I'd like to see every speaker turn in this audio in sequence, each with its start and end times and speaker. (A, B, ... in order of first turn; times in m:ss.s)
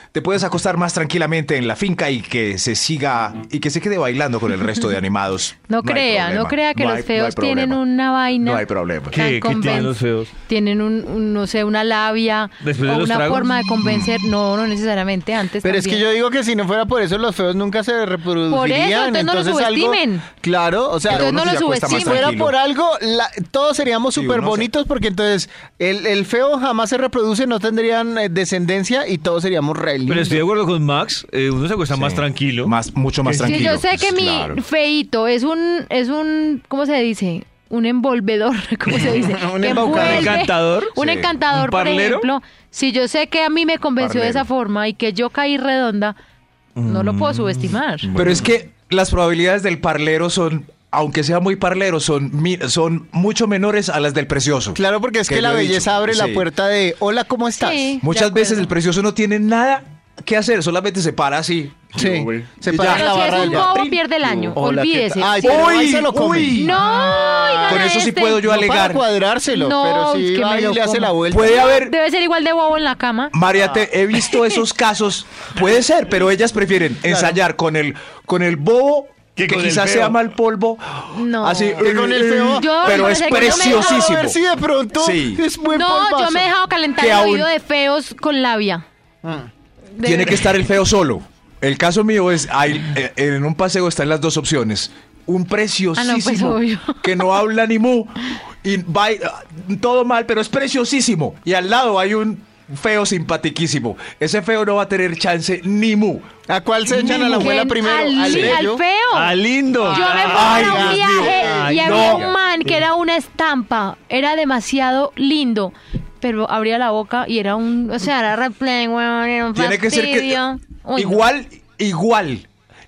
0:00.1-0:09.9 A
0:05.7-0:16.0 B
0:09.1-0:10.3 C
0:12.6-0:13.6 C
0:13.8-0:14.2 A
0:15.6-0:30.4 D
0:18.5-0:20.3 B
0:21.1-0:22.6 A
0:21.1-0:22.3 B
0:24.1-0:24.7 A
0:30.1-0:32.7 C
0:31.9-0:34.6 A
0:33.2-0:33.8 C
0:33.4-0:46.2 B
0:38.9-0:40.5 D
0:39.6-0:41.0 C
0:41.0-0:41.3 A
0:41.5-0:42.3 C
0:44.0-0:44.4 A
0:46.8-0:48.4 C
0:46.8-0:48.1 B
0:48.1-0:56.5 A
0:54.7-0:58.0 D
0:57.6-0:58.7 B
0:58.0-1:04.0 A
1:01.9-1:11.6 D
1:02.8-1:05.7 B
1:05.4-1:06.8 A
1:06.6-1:08.4 B
1:07.7-1:09.0 A
1:09.5-1:13.3 B
1:11.3-1:11.9 A
1:13.3-1:24.4 A
1:14.2-1:14.6 B
1:17.0-1:17.4 D
1:19.3-1:20.2 C
1:21.1-1:21.9 B
1:21.8-1:26.5 D
1:22.5-1:24.1 B
1:24.9-1:25.4 A
1:25.6-1:28.8 B
1:27.0-1:27.5 A
1:29.2-1:29.5 D
1:30.0-1:30.6 B
1:30.0-1:46.3 A
1:36.0-1:37.2 B
1:46.5-1:48.8 D
1:47.0-1:49.3 B
1:47.0-1:47.4 A
1:48.2-1:48.6 A
1:49.1-1:52.3 C
1:49.8-1:52.4 D
1:49.9-2:01.2 B
1:50.3-1:52.2 A
1:59.5-2:00.4 A
2:01.0-2:02.5 A